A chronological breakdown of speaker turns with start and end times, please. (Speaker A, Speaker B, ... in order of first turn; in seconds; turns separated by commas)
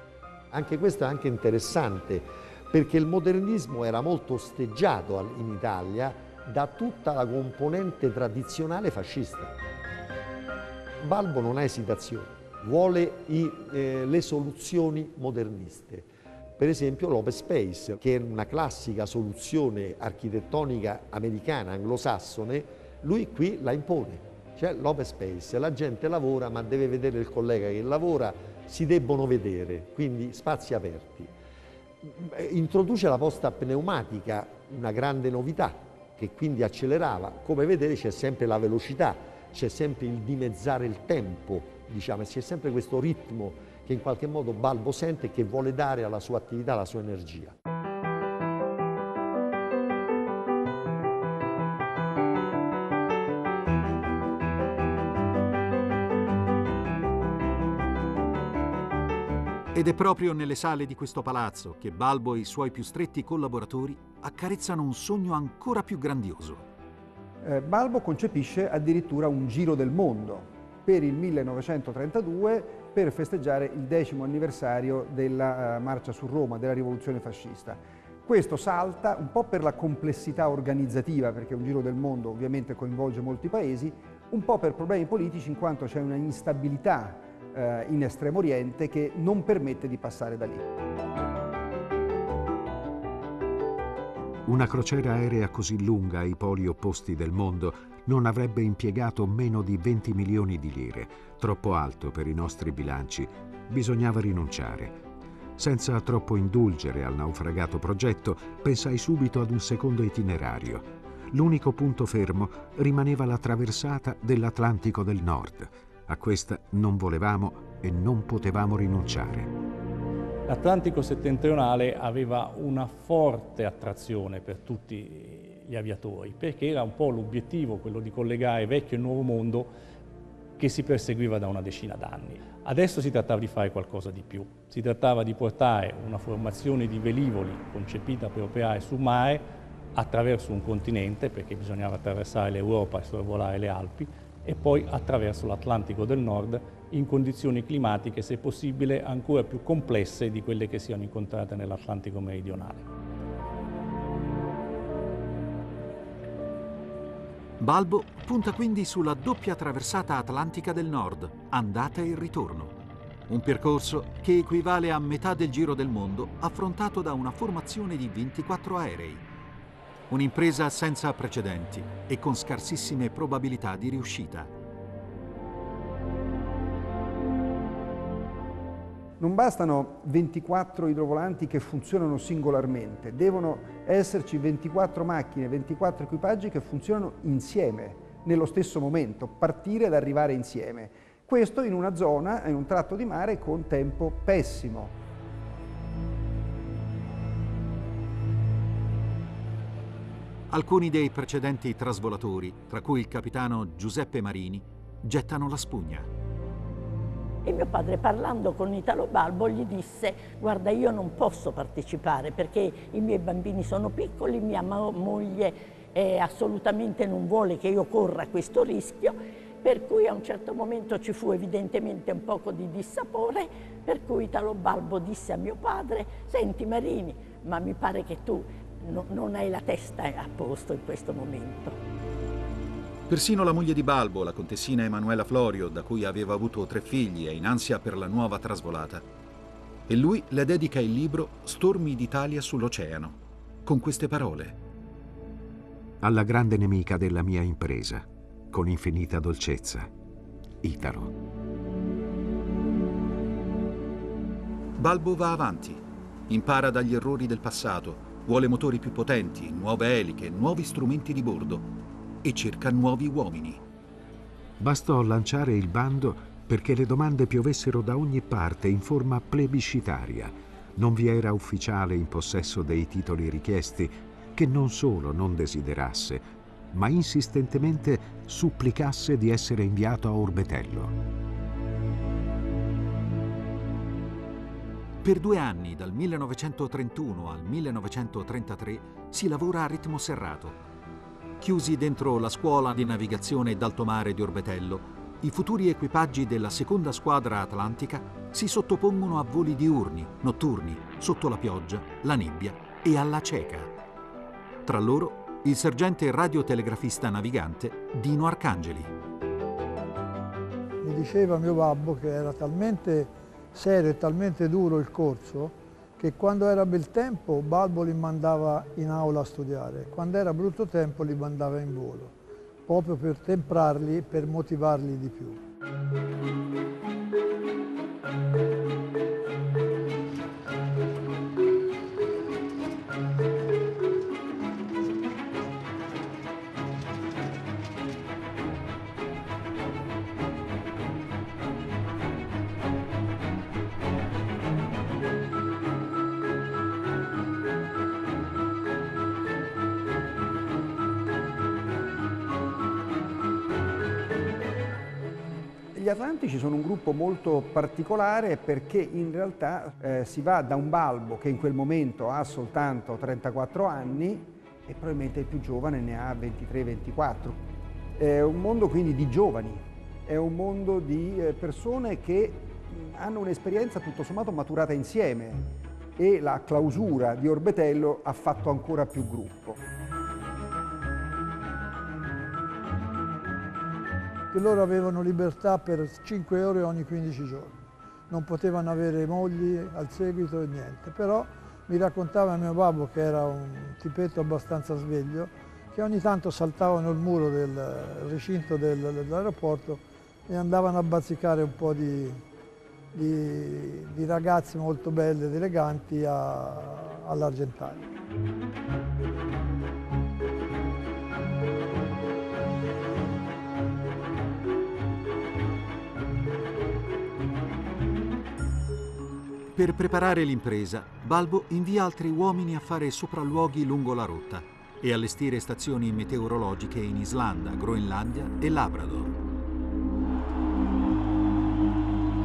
Speaker A: 0.5-9.5, Speaker A: 11.0-31.3, Speaker A: 32.0-47.5, Speaker B: 59.7-66.7, Speaker C: 67.4-90.7, Speaker D: 94.5-105.0, Speaker D: 105.6-119.5, Speaker E: 120.5-129.7, Speaker E: 130.6-152.9, Speaker B: 157.6-162.8, Speaker B: 163.3-169.2, Speaker B: 170.1-174.5, Speaker C: 179.2-194.9, Speaker B: 200.5-206.1, Speaker F: 207.4-231.8, Speaker B: 233.1-239.1, Speaker B: 239.9-244.6, Speaker D: 246.0-249.9, Speaker D: 250.6-251.1, Speaker B: 254.8-261.7, Speaker B: 262.2-263.6, Speaker D: 264.6-280.9, Speaker B: 285.0-290.6, Speaker B: 291.4-303.7, Speaker B: 304.6-308.9, Speaker G: 310.8-322.1, Speaker G: 322.7-325.4, Speaker C: 355.7-367.4, Speaker C: 368.0-379.6, Speaker G: 384.3-402.2, Speaker G: 402.9-407.9, Speaker B: 419.5-429.2